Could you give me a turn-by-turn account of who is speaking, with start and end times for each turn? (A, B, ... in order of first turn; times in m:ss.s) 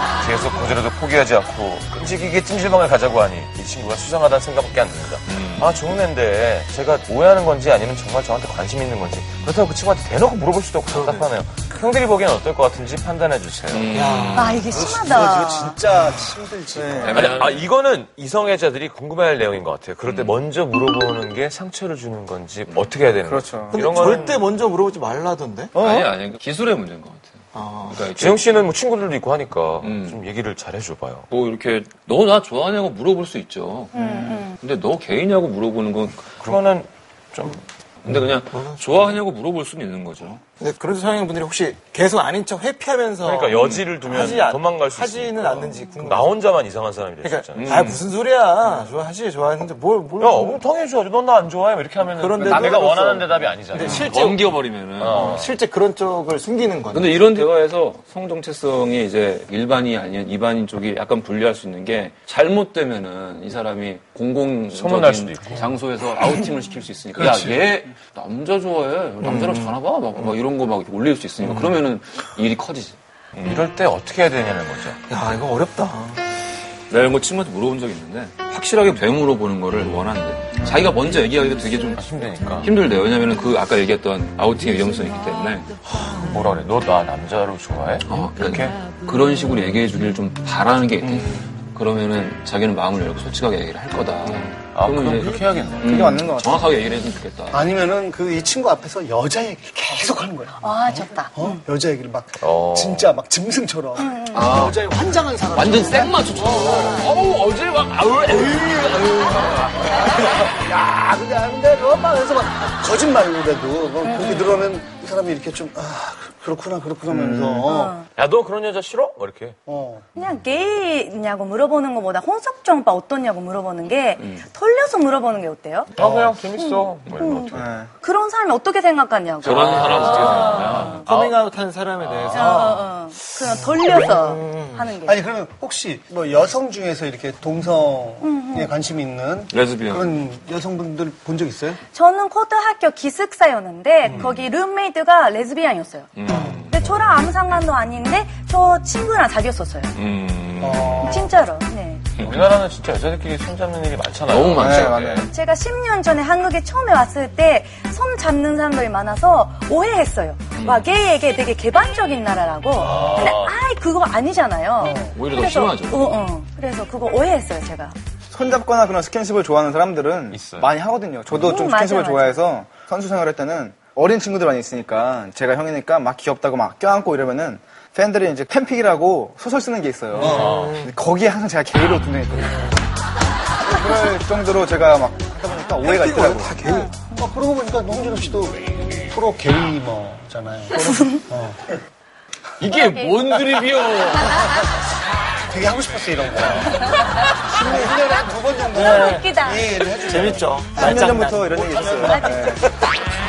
0:00.2-0:14.0 A
0:05.3-0:05.7 B
0:10.9-0:11.3 C
0:13.7-0:14.8 B
0:13.9-0:15.1 C
0:14.4-0:15.8 D
0:14.7-0:17.4 E
0:16.8-0:17.4 F
0:17.0-0:17.6 B
0:17.1-0:24.4 A
0:20.1-0:20.4 B
0:23.2-0:24.3 F
0:23.7-0:25.8 C
0:25.8-0:28.4 B
0:27.5-0:28.0 C
0:28.2-0:31.3 A
0:29.8-0:30.2 B
0:31.3-0:33.9 B
0:33.9-0:34.6 D
0:34.5-0:36.3 B
0:36.4-0:37.6 A
0:38.0-0:40.4 B
0:38.5-0:39.0 C
0:40.6-0:46.3 C
0:43.2-0:48.0 A
0:43.6-0:43.8 B
0:47.2-0:50.6 C
0:47.6-0:48.0 B
0:50.2-0:54.2 A
0:52.0-0:54.5 C
0:52.4-0:52.7 B
0:53.8-0:55.4 B
0:55.0-0:55.5 A
0:55.1-0:57.2 C
0:56.9-1:13.0 B
1:04.7-1:05.6 A
1:07.3-1:07.6 E
1:09.2-1:09.8 C
1:13.4-1:15.0 A
1:15.1-1:16.2 C
1:16.9-1:25.7 B
1:22.0-1:22.7 A
1:26.0-1:28.7 A
1:28.1-1:37.7 B
1:34.7-1:35.9 A
1:35.8-1:36.8 F
1:37.5-1:47.0 E
1:40.6-1:41.6 D
1:42.4-1:43.1 A
1:44.0-1:44.6 D
1:44.3-1:44.8 B
1:45.5-1:50.0 B
1:49.8-1:58.0 E
1:54.0-1:54.5 D
1:57.1-1:57.7 F
1:57.6-1:58.1 D
1:58.2-1:59.6 A
1:59.7-2:00.1 E
2:00.2-2:06.0 D
2:06.0-2:07.7 A
2:06.0-2:06.3 E
2:06.5-2:10.9 D
2:07.5-2:07.9 F
2:09.4-2:11.0 B
2:09.4-2:11.4 A
2:10.9-2:12.9 C
2:12.1-2:12.6 A
2:12.3-2:15.2 D
2:13.4-2:14.9 C
2:15.0-2:21.8 E
2:18.2-2:18.7 D
2:19.5-2:20.2 B
2:21.9-2:30.0 D
2:24.0-2:24.3 E
2:26.2-2:26.9 B
2:26.3-2:26.6 E
2:29.9-2:31.2 B
2:30.6-2:31.4 E
2:31.1-2:32.1 D
2:32.2-2:32.5 B
2:32.2-2:34.9 A
2:34.3-2:35.3 B
2:34.6-2:35.3 F
2:35.3-2:48.0 D
2:40.6-2:40.9 B
2:42.8-2:43.6 A
2:44.8-2:45.3 E
2:45.1-2:46.2 B
2:48.3-3:02.7 F
2:50.3-2:50.7 A
2:51.3-2:52.4 D
3:00.1-3:00.9 C
3:00.2-3:00.6 E
3:00.3-3:00.7 A
3:03.7-3:06.6 F
3:03.7-3:04.1 E
3:05.4-3:06.0 E
3:05.9-3:07.0 C
3:06.8-3:07.2 D
3:07.2-3:11.8 E
3:10.9-3:11.2 D
3:12.6-3:14.6 B
3:12.7-3:13.2 D
3:15.5-3:16.9 E
3:16.7-3:18.0 D
3:17.4-3:21.1 E
3:18.7-3:19.6 D
3:18.8-3:19.3 C
3:20.0-3:21.7 C
3:20.7-3:22.7 F
3:21.6-3:22.3 E
3:21.7-3:22.6 D